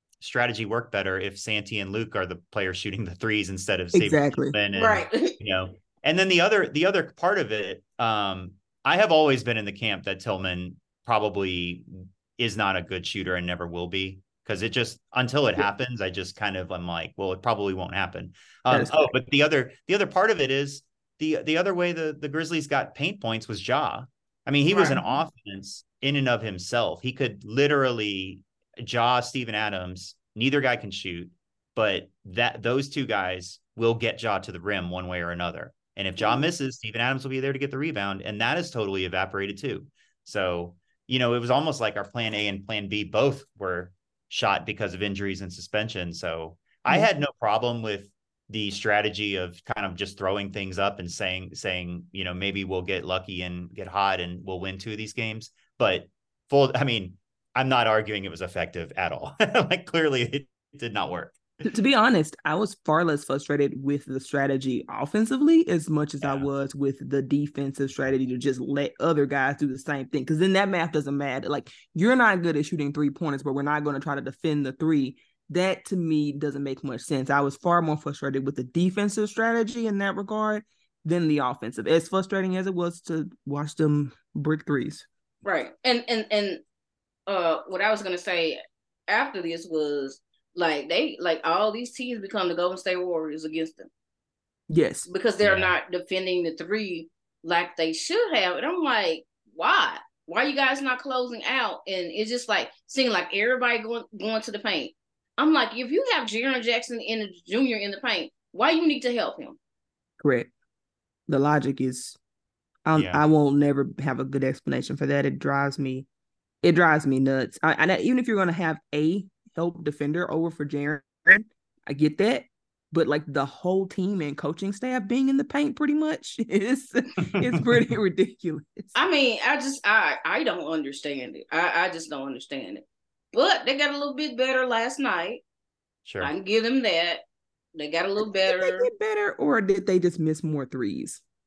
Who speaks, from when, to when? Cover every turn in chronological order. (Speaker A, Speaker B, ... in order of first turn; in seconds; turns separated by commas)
Speaker A: 0.2-61.4, Speaker B: 3.9-4.5, Speaker C: 4.8-5.3, Speaker B: 18.7-19.1, Speaker B: 24.7-25.0, Speaker C: 36.2-36.5, Speaker B: 61.6-85.1, Speaker A: 66.2-66.5, Speaker C: 85.4-86.6, Speaker C: 87.3-93.9, Speaker B: 94.7-95.1, Speaker C: 95.1-109.6, Speaker A: 95.4-95.7, Speaker B: 110.2-110.5, Speaker B: 111.3-112.2, Speaker B: 112.8-116.1, Speaker A: 112.9-113.2, Speaker B: 116.6-129.0, Speaker A: 127.3-127.7, Speaker C: 128.9-135.4, Speaker A: 136.1-136.3, Speaker C: 136.2-137.2, Speaker C: 137.8-138.9, Speaker B: 138.3-141.2